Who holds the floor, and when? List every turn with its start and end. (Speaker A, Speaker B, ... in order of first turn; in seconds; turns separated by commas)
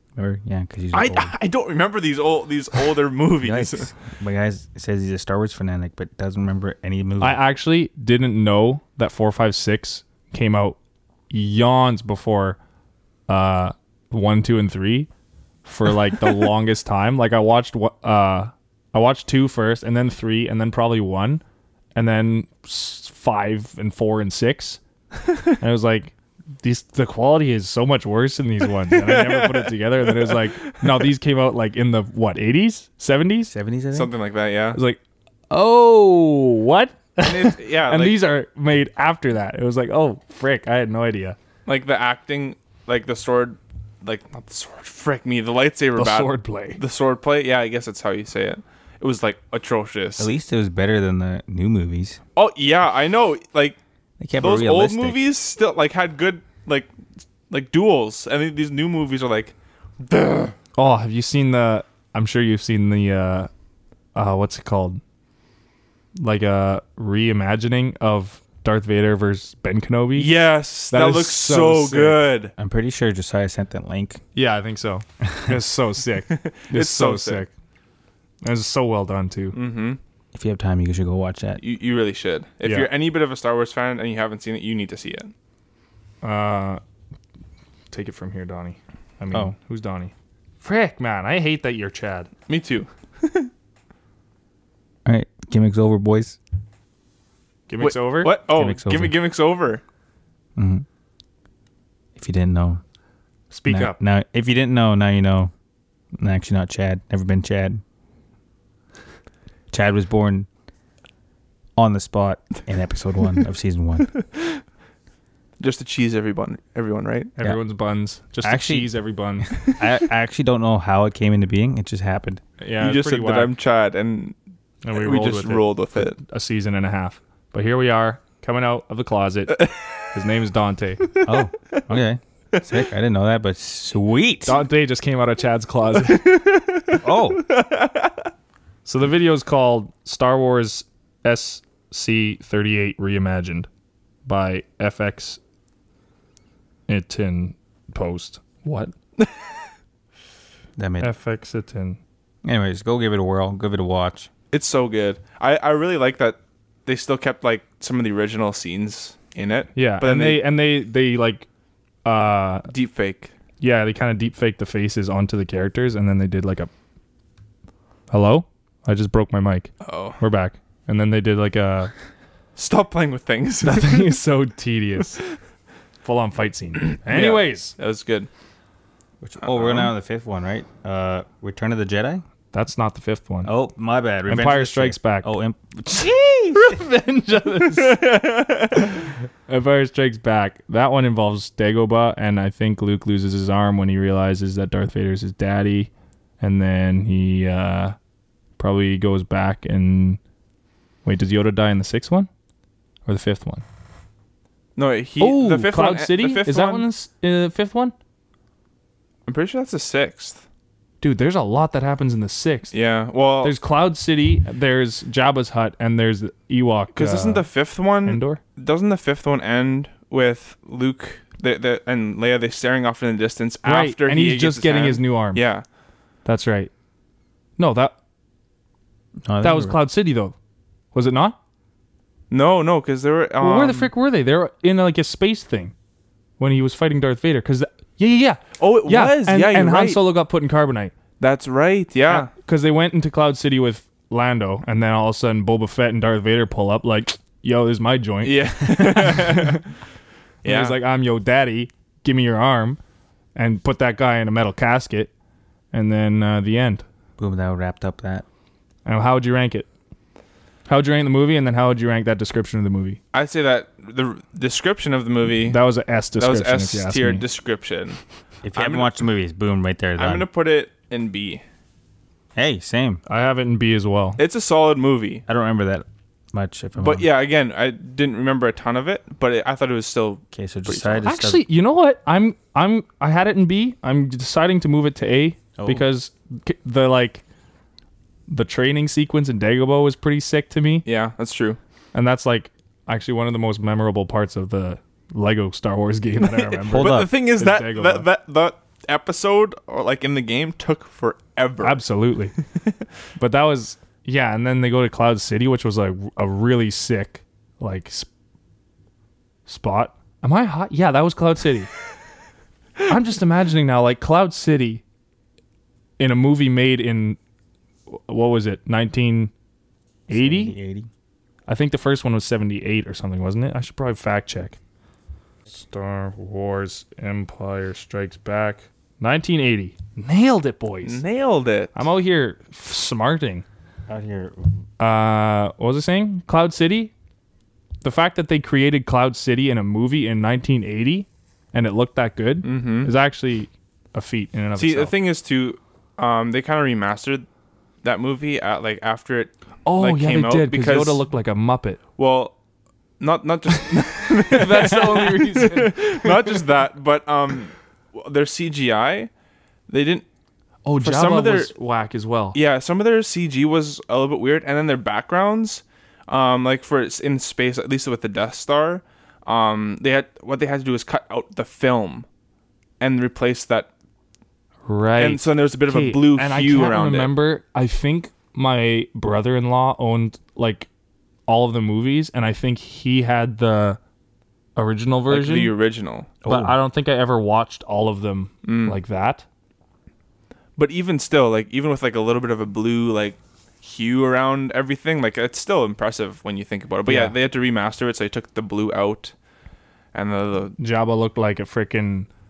Speaker A: 0.1-1.3, Speaker B: 0.9-3.9, Speaker A: 3.4-7.4, Speaker C: 7.2-10.8, Speaker C: 11.3-12.6, Speaker C: 13.3-15.1, Speaker C: 15.6-21.4, Speaker C: 21.9-24.8, Speaker C: 25.6-33.5, Speaker B: 28.9-30.9, Speaker A: 33.5-34.1, Speaker B: 33.9-34.8, Speaker C: 34.7-41.4, Speaker B: 37.2-38.2, Speaker B: 41.6-50.3, Speaker C: 46.0-46.8, Speaker A: 50.2-52.2, Speaker B: 52.4-53.8, Speaker A: 54.2-55.2, Speaker B: 54.4-56.9, Speaker B: 57.5-60.5, Speaker C: 60.8-63.5, Speaker C: 64.1-65.0, Speaker C: 66.2-70.3, Speaker B: 70.2-72.5, Speaker C: 70.9-72.2, Speaker A: 72.6-74.2, Speaker C: 74.3-77.5, Speaker B: 76.3-77.4, Speaker C: 78.4-79.5, Speaker B: 79.5-80.0, Speaker A: 80.3-81.6, Speaker B: 81.6-85.3, Speaker C: 82.6-82.9, Speaker C: 86.2-86.8, Speaker C: 87.9-92.3, Speaker B: 92.5-93.5, Speaker A: 95.0-96.4, Speaker C: 97.7-98.3, Speaker B: 97.8-99.8, Speaker A: 98.5-99.1, Speaker A: 100.5-100.8, Speaker A: 102.2-102.8, Speaker C: 103.5-104.0, Speaker A: 103.7-105.5, Speaker A: 106.2-107.8, Speaker A: 109.7-110.5, Speaker A: 111.8-114.1, Speaker B: 115.6-117.3, Speaker C: 117.3-119.6, Speaker A: 118.4-118.9, Speaker A: 119.6-122.4, Speaker C: 122.6-123.5, Speaker B: 122.8-124.3, Speaker C: 124.8-131.0, Speaker B: 124.9-126.2, Speaker A: 131.2-134.6, Speaker C: 134.4-136.3, Speaker B: 136.1-138.1, Speaker A: 137.0-137.4, Speaker C: 138.8-143.7, Speaker C: 144.2-145.4, Speaker C: 146.9-148.9, Speaker B: 149.2-149.5, Speaker A: 150.8-151.1, Speaker C: 151.0-152.0, Speaker A: 152.4-154.3, Speaker B: 154.5-160.4, Speaker C: 159.7-161.5, Speaker C: 162.0-162.7, Speaker B: 162.7-163.3, Speaker C: 163.6-166.7, Speaker C: 168.1-171.9, Speaker B: 169.8-170.2, Speaker B: 172.6-174.2, Speaker C: 173.6-175.2, Speaker C: 176.0-177.7, Speaker B: 177.0-178.3, Speaker A: 179.2-182.2, Speaker B: 179.4-179.9, Speaker C: 182.5-183.5, Speaker A: 183.4-186.8, Speaker C: 184.3-185.3, Speaker C: 186.5-188.0, Speaker B: 187.7-188.9, Speaker C: 189.5-197.9, Speaker C: 198.6-200.2, Speaker C: 201.0-202.3, Speaker C: 203.1-203.6, Speaker B: 204.8-206.9, Speaker C: 205.2-207.9, Speaker B: 209.2-210.4, Speaker C: 211.0-212.7, Speaker B: 212.7-213.5, Speaker C: 213.4-217.4, Speaker B: 216.9-225.6, Speaker C: 218.0-218.4, Speaker C: 223.6-225.4, Speaker C: 226.2-226.7, Speaker C: 227.6-227.9, Speaker A: 229.2-229.8, Speaker C: 229.4-230.3, Speaker C: 230.9-231.4, Speaker B: 232.3-233.9, Speaker C: 233.4-235.7, Speaker C: 236.4-240.9, Speaker B: 238.6-240.0, Speaker B: 241.2-242.3, Speaker C: 242.1-249.6, Speaker B: 248.2-249.6, Speaker B: 250.4-250.8, Speaker C: 250.4-252.8, Speaker C: 253.3-255.1, Speaker C: 255.7-256.8, Speaker A: 257.2-258.2, Speaker C: 258.9-259.7, Speaker C: 260.7-263.0, Speaker B: 263.1-265.6, Speaker C: 265.4-267.2, Speaker B: 266.2-268.0, Speaker A: 268.4-270.3, Speaker B: 268.5-269.0, Speaker B: 270.0-271.4, Speaker A: 272.3-273.0, Speaker C: 273.1-274.2, Speaker B: 274.2-275.2, Speaker A: 275.3-277.1, Speaker B: 276.8-281.1, Speaker A: 280.3-281.4, Speaker C: 281.0-287.2, Speaker A: 285.6-285.8, Speaker C: 288.3-290.9, Speaker B: 290.9-291.6, Speaker C: 291.9-298.1, Speaker B: 296.2-301.8, Speaker A: 296.7-297.1, Speaker C: 301.6-302.3, Speaker C: 303.2-308.1, Speaker C: 309.4-311.7, Speaker C: 312.9-314.8, Speaker C: 316.0-317.2, Speaker C: 317.9-319.3, Speaker C: 320.1-320.5, Speaker A: 320.1-320.9, Speaker C: 321.5-324.6, Speaker C: 325.5-331.0, Speaker B: 330.8-331.8, Speaker C: 331.7-333.4, Speaker A: 333.9-334.5, Speaker C: 334.8-336.9, Speaker C: 337.8-344.9, Speaker B: 342.4-342.9, Speaker B: 344.6-347.2, Speaker B: 347.8-351.0, Speaker C: 349.6-351.8, Speaker B: 352.0-352.3, Speaker B: 353.0-359.1, Speaker C: 354.2-356.4, Speaker B: 359.7-360.1, Speaker C: 360.6-362.4, Speaker B: 360.8-361.5, Speaker B: 362.3-372.1, Speaker B: 372.8-373.7, Speaker C: 374.6-380.7, Speaker B: 375.0-377.1, Speaker C: 381.3-383.8, Speaker C: 384.6-385.5, Speaker B: 385.1-386.1, Speaker A: 386.2-386.6, Speaker C: 386.2-389.2, Speaker B: 388.4-388.8, Speaker B: 390.6-399.1, Speaker A: 396.9-397.1, Speaker B: 399.9-400.6, Speaker C: 400.6-402.1